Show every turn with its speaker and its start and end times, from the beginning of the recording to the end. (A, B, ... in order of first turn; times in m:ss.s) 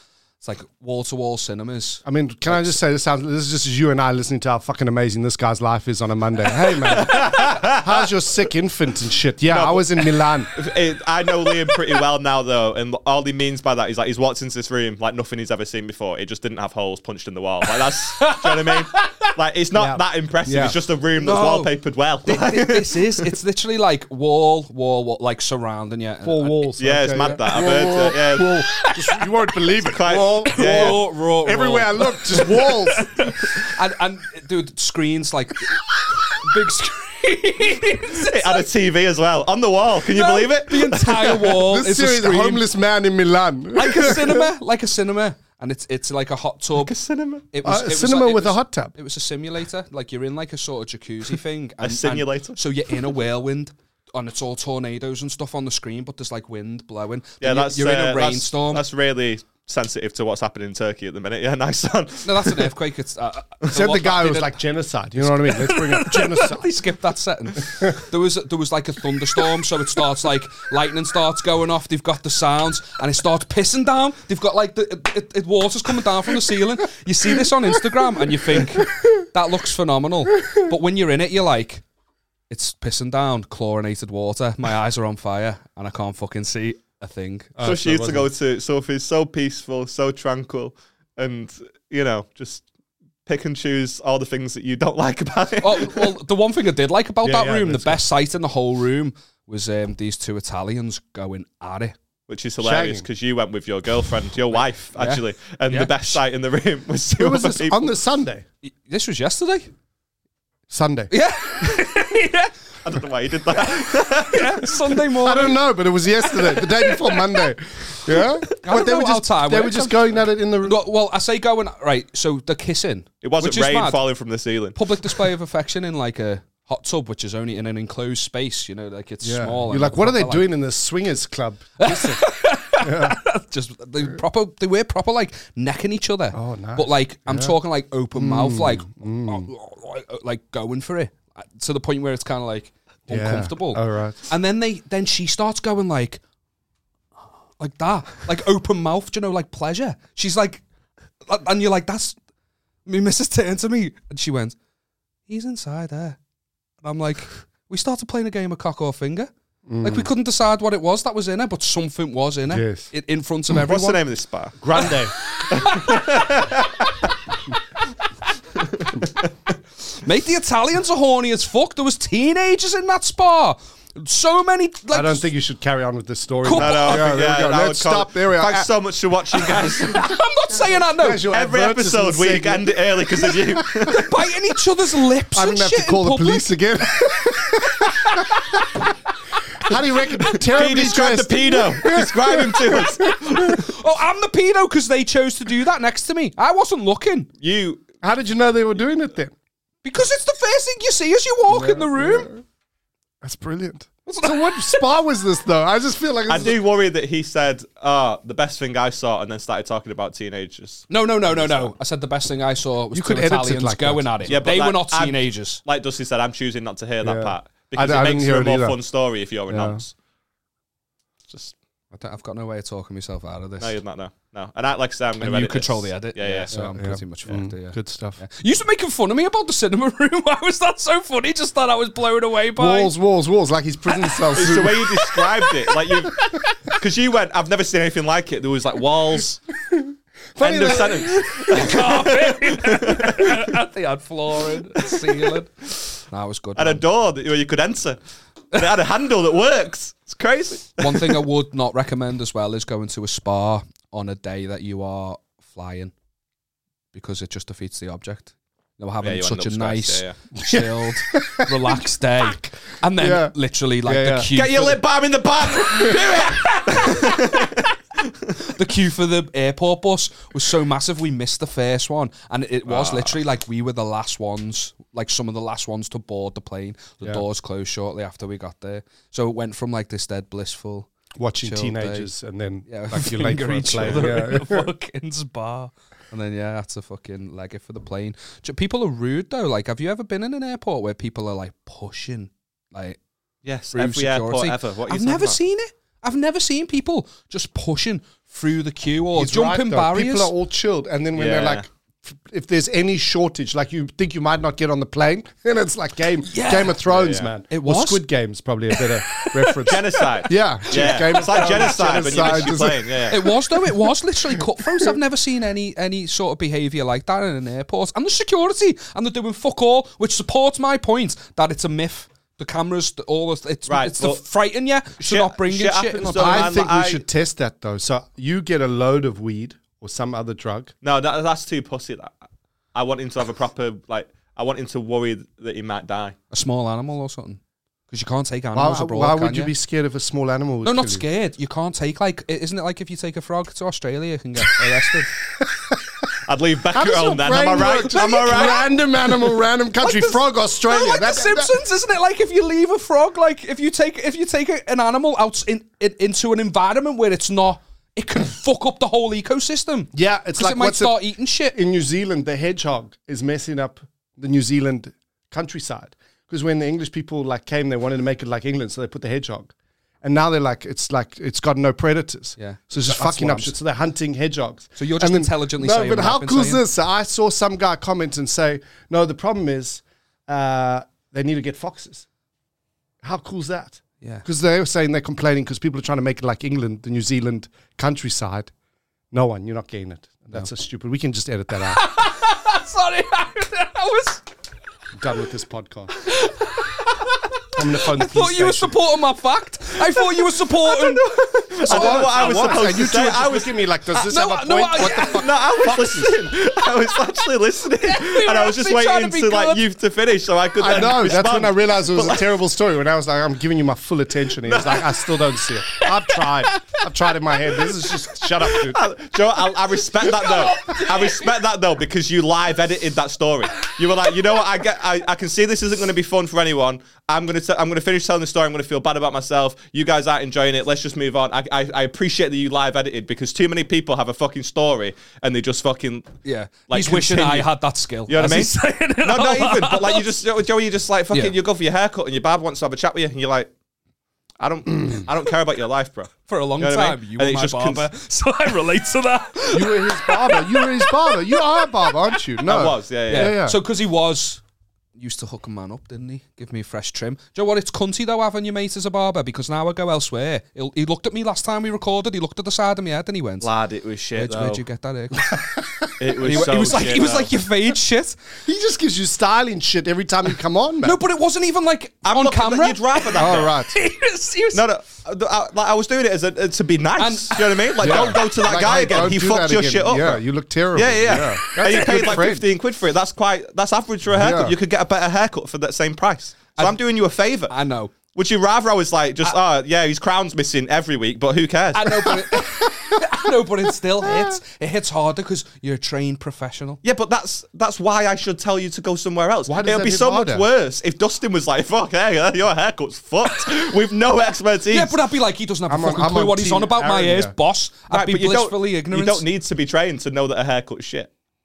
0:00.4-0:02.6 A
0:02.0-0:10.5 B
0:06.8-0:08.0 C
0:09.5-0:23.2 C
0:18.2-0:19.3 A
0:19.7-0:20.8 B
0:21.2-0:21.7 A
0:22.2-0:26.7 A
0:26.2-0:33.4 B
0:26.8-0:28.6 C
0:28.6-0:29.3 A
0:29.9-0:31.0 C
0:30.4-0:38.7 A
0:38.0-0:41.6 C
0:40.1-0:42.7 A
0:41.5-0:44.5 B
0:43.8-0:46.9 A
0:46.8-0:47.4 C
0:47.5-0:58.8 A
0:47.6-0:48.9 B
0:51.8-0:52.6 C
0:57.4-1:02.7 C
1:02.2-1:04.6 A
1:03.7-1:06.7 B
1:05.2-1:21.8 A
1:22.5-1:27.8 A
1:27.6-1:28.3 B
1:27.6-1:32.7 C
1:33.3-1:36.1 C
1:35.6-1:42.0 A
1:37.2-1:38.0 B
1:42.3-1:47.9 C
1:42.6-1:43.1 B
1:45.0-1:46.2 A
1:47.2-1:48.4 B
1:48.7-1:49.7 A
1:50.7-1:51.1 B
1:51.1-1:52.5 A
1:52.8-1:54.8 C
1:53.7-1:55.6 A
1:55.1-2:00.8 B
1:56.2-1:57.5 A
1:58.1-2:04.1 A
2:03.2-2:05.3 C
2:04.8-2:10.5 A
2:09.2-2:12.2 B
2:11.8-2:26.2 A
2:12.8-2:13.2 B
2:16.3-2:17.5 B
2:18.1-2:19.5 B
2:23.1-2:24.3 B
2:27.6-2:30.6 A
2:31.3-2:32.2 A
2:32.9-2:34.6 A
2:35.3-2:36.2 A
2:36.8-2:39.3 A
2:39.7-2:40.1 B
2:39.8-2:44.0 A
2:42.5-2:42.9 B
2:43.6-2:45.0 C
2:44.6-2:45.1 B
2:45.5-2:46.4 A
2:45.5-2:47.1 C
2:48.6-2:49.3 C
2:49.9-2:55.3 A
2:54.9-2:58.7 B
2:56.4-2:57.2 A
2:56.6-3:00.1 C
2:59.5-3:01.3 A
3:01.0-3:02.7 B
3:01.3-3:04.1 C
3:03.9-3:08.8 A
3:05.3-3:08.9 B
3:09.6-3:13.6 B
3:10.5-3:13.6 C
3:12.7-3:17.3 A
3:17.4-3:17.8 C
3:18.0-3:19.3 B
3:19.8-3:22.3 A
3:21.5-3:22.4 B
3:23.2-3:26.6 B
3:24.1-3:24.8 A
3:26.3-3:31.7 C
3:30.9-3:35.6 A
3:32.9-3:34.4 B
3:34.3-3:39.9 C
3:37.0-3:38.8 B
3:39.5-3:39.8 B
3:41.3-3:41.6 C
3:41.9-3:43.8 A
3:43.6-3:46.5 C
3:45.2-3:52.9 A
3:46.5-3:48.2 B
3:52.6-3:55.0 B
3:54.0-3:54.2 A
3:54.4-3:56.2 C
3:56.8-3:59.4 C
3:59.7-4:01.8 B
4:00.4-4:03.5 C
4:01.4-4:06.8 A
4:06.6-4:08.0 C
4:08.5-4:11.2 C
4:10.8-4:15.9 A
4:16.9-4:24.8 A
4:19.0-4:20.2 C
4:20.5-4:21.8 B
4:23.0-4:24.3 B
4:24.3-4:28.3 C
4:25.5-4:27.4 A
4:28.4-4:40.9 A
4:32.7-4:33.2 C
4:41.2-4:44.7 B
4:41.4-4:42.1 A
4:42.7-4:53.0 A
4:53.4-4:55.4 C
4:53.7-5:00.3 A
4:59.2-5:13.8 B
5:01.2-5:01.6 C
5:06.2-5:06.8 A
5:06.9-5:07.3 C
5:07.5-5:08.1 A
5:08.8-5:26.6 A
5:09.7-5:13.3 C
5:14.4-5:14.9 B
5:23.7-5:24.2 C
5:25.0-5:27.0 C
5:26.2-5:30.7 B
5:30.8-5:32.2 C
5:32.7-5:36.2 C
5:36.3-5:39.5 A
5:38.5-5:41.0 B
5:40.6-5:45.1 A
5:45.4-5:46.0 B
5:46.3-5:48.7 C
5:46.7-5:51.5 B
5:47.8-6:01.6 A
5:59.9-6:01.0 B
6:01.5-6:22.0 B
6:12.4-6:13.5 A
6:14.8-6:16.6 A
6:23.0-6:28.5 B
6:29.1-6:31.8 B
6:31.6-6:34.2 A
6:34.9-6:36.0 B
6:36.0-6:42.6 A
6:37.5-6:38.8 B
6:40.7-6:43.6 C
6:41.7-6:45.4 B
6:44.1-6:46.2 A
6:44.8-6:52.4 C
6:47.8-6:49.6 A
6:50.6-6:58.8 B
6:54.4-6:55.2 C
6:55.8-6:56.2 C
6:58.4-7:16.1 C
7:00.6-7:01.2 A
7:16.2-7:20.0 A
7:16.7-7:17.5 C
7:18.1-7:23.5 C
7:24.4-7:27.9 C
7:26.3-7:32.2 A
7:29.5-7:33.6 B
7:32.5-7:33.4 C
7:33.1-7:34.4 A
7:35.0-7:43.5 A
7:43.4-7:44.6 C
7:44.2-7:45.4 A
7:46.0-7:47.4 C
7:46.1-7:48.2 A
7:48.5-7:51.0 B
7:50.8-7:54.7 A
7:52.0-7:53.6 C
7:53.2-7:53.8 B
7:54.5-8:00.2 C
7:57.0-7:58.2 A
7:57.8-8:02.4 B
8:00.7-8:07.5 C
8:01.5-8:02.3 A
8:04.1-8:04.6 B
8:07.5-8:07.9 A
8:08.1-8:12.2 C
8:11.8-8:16.8 A
8:12.1-8:13.0 B
8:14.0-8:14.4 B
8:16.8-8:25.0 C
8:19.5-8:20.4 B
8:24.7-8:29.3 A
8:25.7-8:27.3 B
8:27.9-8:31.1 C